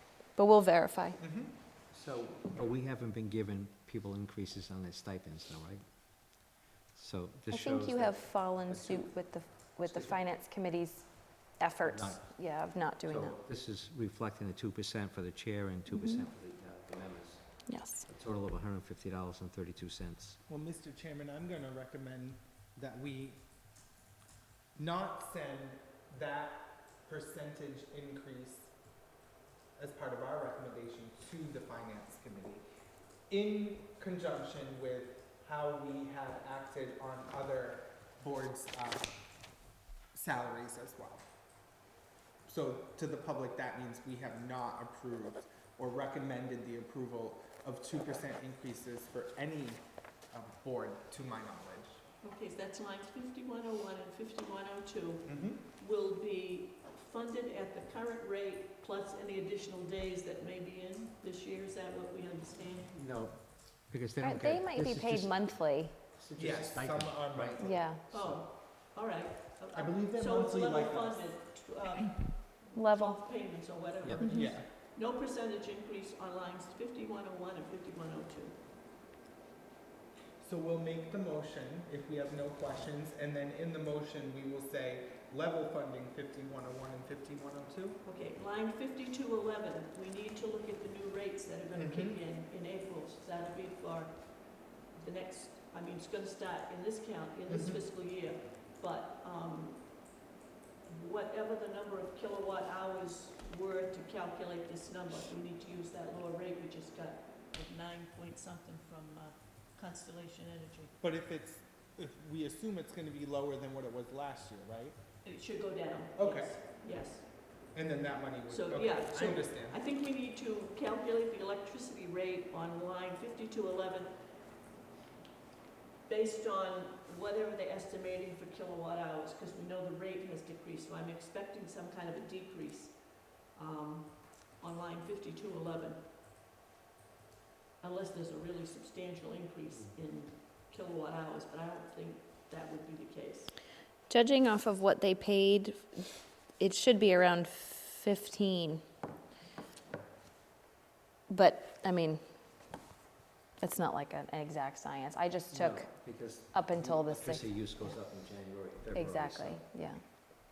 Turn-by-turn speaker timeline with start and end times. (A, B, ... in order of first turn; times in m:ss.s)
0:00.3-0:01.2 A
0:01.2-0:01.5 B
0:01.9-0:09.1 C
0:07.5-0:13.4 A
0:09.7-0:10.2 C
0:11.8-0:20.4 C
0:15.9-0:16.3 A
0:17.7-0:18.1 A
0:20.5-0:23.4 B
0:24.8-0:28.7 B
0:29.8-0:32.6 B
0:33.3-0:39.1 B
0:40.1-0:41.3 B
0:42.4-0:52.0 B
0:52.2-1:02.9 D
0:55.2-0:55.6 B
1:02.9-1:08.4 C
1:04.2-1:06.0 A
1:06.4-1:08.3 B
1:07.6-1:08.0 A
1:08.1-1:18.6 D
1:09.7-1:11.3 B
1:12.7-1:13.2 A
1:14.0-1:14.3 C
1:14.3-1:14.7 B
1:20.4-1:28.0 B
1:28.0-1:40.2 D
1:31.7-1:32.2 B
1:37.5-1:37.8 B
1:40.8-1:50.9 D
1:51.0-1:55.0 B
1:55.2-1:57.4 D
1:56.2-1:56.6 B
1:57.7-1:59.8 B
1:58.5-2:04.3 D
2:06.0-2:16.0 D
2:17.8-2:23.6 D
2:24.1-2:28.8 A
2:31.3-2:32.2 A
2:33.6-2:37.9 A
2:35.5-2:39.7 C
2:38.9-2:40.0 A